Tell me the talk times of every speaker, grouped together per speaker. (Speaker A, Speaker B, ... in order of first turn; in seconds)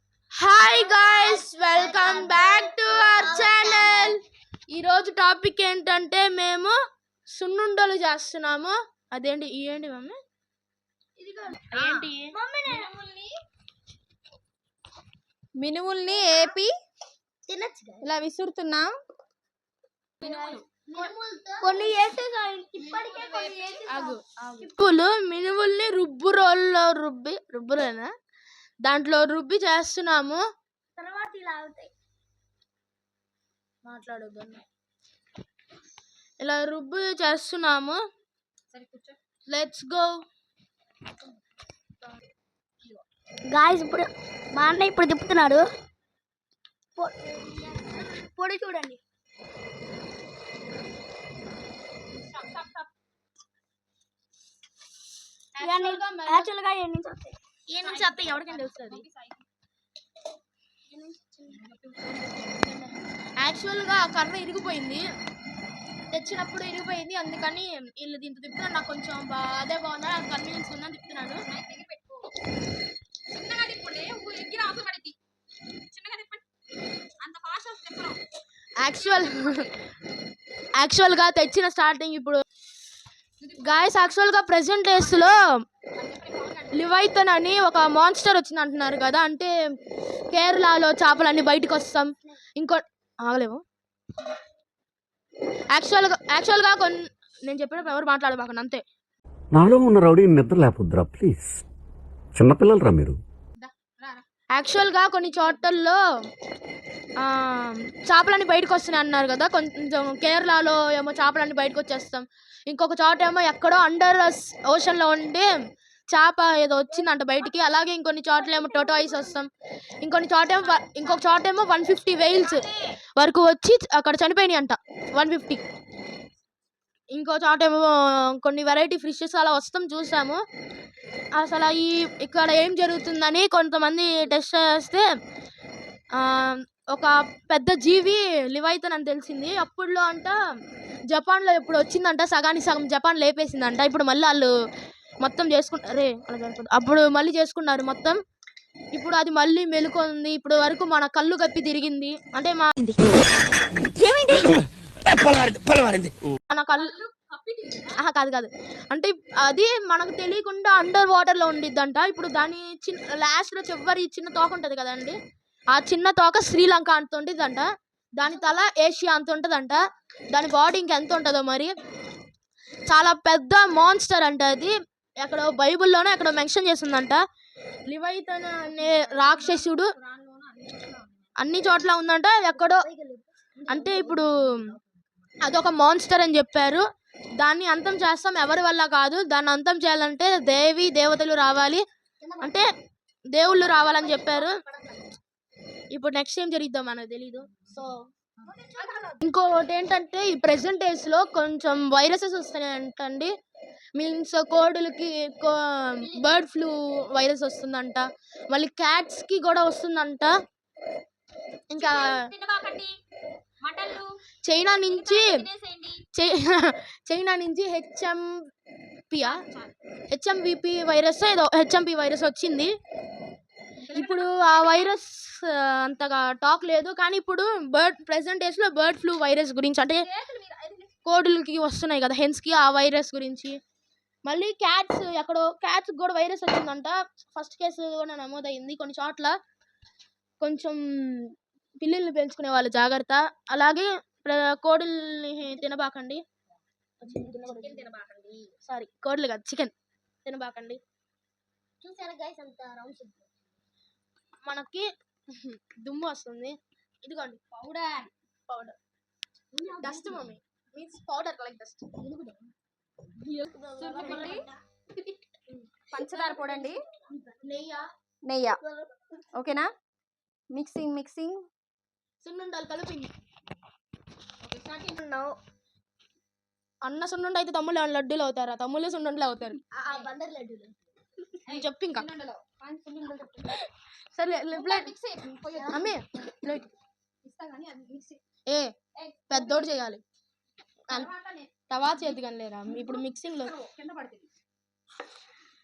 Speaker A: 0.3-6.8, 7.3-10.2, 11.7-12.3, 20.2-20.5, 23.9-28.1, 28.8-30.4, 33.8-34.6, 36.4-38.0, 39.5-40.1, 55.6-56.5, 57.7-59.0, 62.5-65.0, 66.1-71.4, 78.8-79.7, 80.8-82.4, 83.6-85.4, 86.7-89.5, 90.3-93.6, 95.7-98.8, 104.5-106.0, 107.2-115.5, 116.1-119.5, 120.0-122.7, 123.2-125.6, 127.1-130.4, 131.3-135.1, 136.1-140.4, 141.1-144.5, 145.2-148.2, 148.9-153.1, 156.5-156.9, 158.0-165.2, 165.7-169.8, 170.3-171.7, 172.9-177.2, 177.9-179.9, 181.4-182.8, 183.7-184.3, 185.4-186.9, 187.4-191.8, 192.4-192.7, 193.3-194.5, 195.9-197.5, 199.2-203.3, 204.0-210.3, 211.7-212.3, 214.4-215.4, 216.1-218.2, 219.1-219.4, 220.1-222.7, 223.9-230.0, 231.1-233.6, 234.2-239.4, 240.4-246.2, 247.1-247.7, 248.6-249.7, 250.2-250.8, 254.4-257.4, 258.5-258.8, 259.8-261.9, 267.4-267.9, 272.2-273.1, 276.8-279.6, 281.5-282.1, 283.6-284.9, 285.7-286.7, 288.5-288.7, 289.3-290.0, 291.7-293.5
Speaker B: 0.7-4.2, 12.3-12.9, 16.1-16.6, 17.5-18.1, 20.2-24.2, 31.0-31.9, 43.5-45.6, 47.0-49.0, 55.6-57.4, 60.9-61.6, 116.9-117.6, 118.3-119.4, 182.5-184.2, 192.2-192.6, 193.5-195.2, 198.6-199.1, 212.2-212.5, 251.8-253.3, 259.5-260.3, 262.0-262.5, 263.3-264.6, 266.1-267.4, 268.6-268.9, 274.9-275.4, 279.7-280.8, 285.6-285.9
Speaker C: 11.8-12.1, 12.7-13.3, 15.6-16.7, 18.0-18.9, 20.2-20.6, 22.8-23.9, 38.7-39.2, 52.2-52.9, 57.8-59.5, 61.5-62.5, 71.4-72.3, 73.3-75.2, 75.9-76.4, 77.2-78.2, 79.0-79.7, 83.4-84.0, 84.9-85.3, 86.0-87.0, 103.6-104.2, 105.3-105.5, 178.8-181.3, 198.4-199.2, 223.9-224.8, 229.9-231.0, 247.1-248.5, 257.5-258.1, 263.7-264.5, 265.9-266.8, 268.2-268.6, 269.3-269.7, 270.5-271.4, 274.4-274.9, 279.9-280.1, 281.5-283.6, 284.5-285.8, 287.2-288.2, 289.0-289.7, 290.9-291.5, 292.7-294.3
Speaker D: 99.5-101.6, 102.3-103.2